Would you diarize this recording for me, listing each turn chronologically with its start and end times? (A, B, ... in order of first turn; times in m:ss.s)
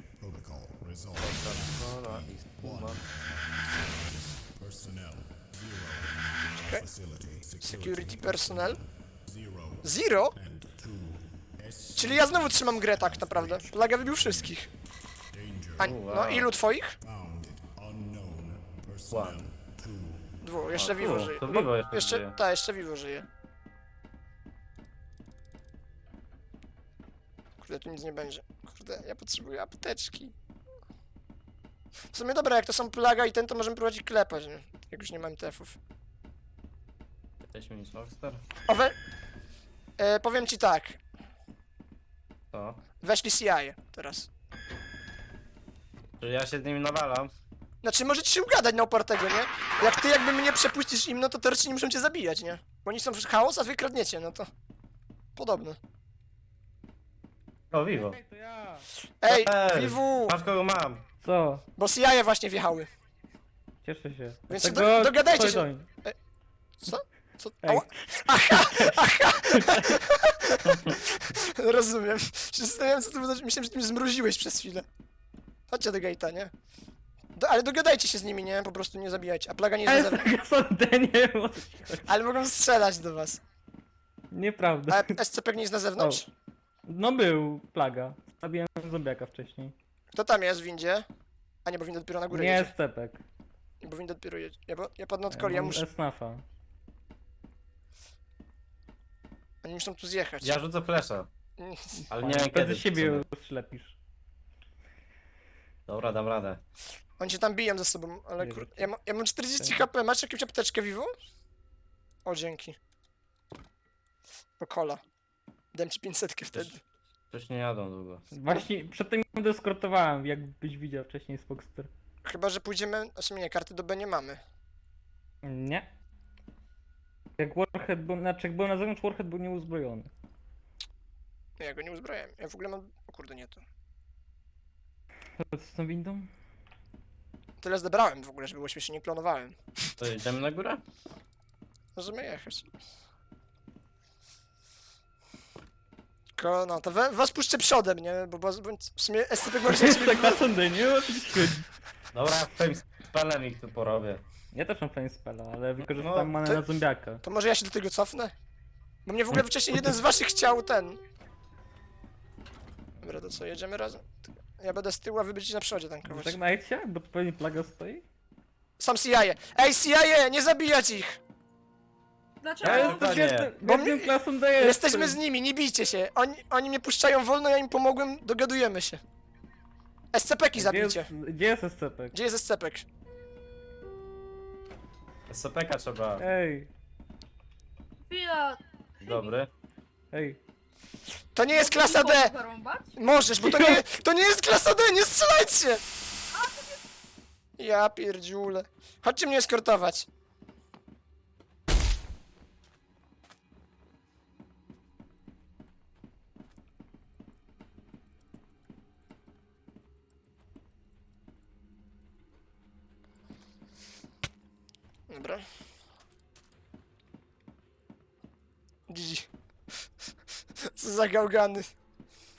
0:00.2-0:14.6 A
0:01.2-0:03.0 B
0:07.6-0:08.8 C
0:09.8-0:10.4 C
0:12.0-0:14.7 C
0:15.3-0:15.9 A
0:15.8-0:17.0 C
0:15.8-0:16.5 B
0:17.0-0:20.4 A
0:19.1-0:19.4 B
0:20.4-0:23.3 C
0:20.7-0:22.4 B
0:27.6-0:30.3 C
0:32.1-0:35.8 C
0:37.4-0:38.4 B
0:38.7-0:39.0 C
0:40.0-0:41.0 C
0:42.5-0:42.8 B
0:43.0-0:44.3 C
0:46.2-0:47.3 B
0:47.8-0:54.5 C
0:55.4-0:55.8 C
0:57.7-0:58.2 B
0:57.9-0:58.9 D
0:59.2-1:00.4 C
0:59.2-1:01.0 B
1:01.2-1:01.6 D
1:01.8-1:02.9 C
1:03.8-1:05.9 D
1:04.5-1:06.1 C
1:06.8-1:14.8 C
1:07.6-1:10.0 D
1:15.7-1:16.5 C
1:17.4-1:20.3 C
1:19.8-1:22.1 D
1:22.1-1:23.4 C
1:24.3-1:25.2 D
1:24.9-1:26.3 C
1:26.0-1:26.2 D
1:26.9-1:29.7 D
1:30.1-1:31.0 C
1:31.6-1:32.7 C
1:32.3-1:33.2 D
1:33.8-1:35.8 C
1:35.3-1:36.4 D
1:39.6-1:40.6 C
1:40.4-1:41.3 B
1:41.6-1:42.0 C
1:42.1-1:43.2 B
1:42.2-1:44.0 D
1:45.9-1:46.6 B
1:47.2-1:51.1 C
1:48.4-1:48.9 D
1:52.2-1:52.8 C
1:54.6-1:55.0 C
1:55.7-1:56.8 C
1:57.3-1:58.3 B
1:58.3-2:01.9 D
2:02.2-2:04.4 C
2:05.4-2:05.9 D
2:07.4-2:10.1 D
2:11.6-2:13.6 C
2:15.4-2:16.3 D
2:17.6-2:19.6 C
2:20.0-2:20.8 B
2:22.0-2:22.7 C
2:26.4-2:30.4 C
2:29.6-2:31.7 D
2:32.1-2:34.2 B
2:34.5-2:37.2 D
2:35.8-2:36.5 B
2:37.2-2:38.3 C
2:39.0-2:41.0 C
2:43.0-2:46.4 C
2:46.0-2:48.0 D
2:48.8-2:51.2 C
2:52.4-2:53.3 E
2:52.6-2:55.2 D
2:52.6-2:53.5 B
2:53.6-2:59.0 C
3:00.1-3:01.1 C
3:00.5-3:02.1 D
3:02.1-3:02.8 C
3:05.3-3:06.2 B
3:06.2-3:06.7 D
3:08.1-3:09.3 E
3:09.0-3:09.5 B
3:10.1-3:10.4 D
3:11.3-3:12.3 C
3:11.5-3:13.0 E
3:13.0-3:15.8 C
3:13.4-3:13.8 D
3:16.3-3:16.8 E
3:17.6-3:20.1 C
3:35.1-3:35.4 C
3:38.9-3:39.3 C
3:40.6-3:41.7 C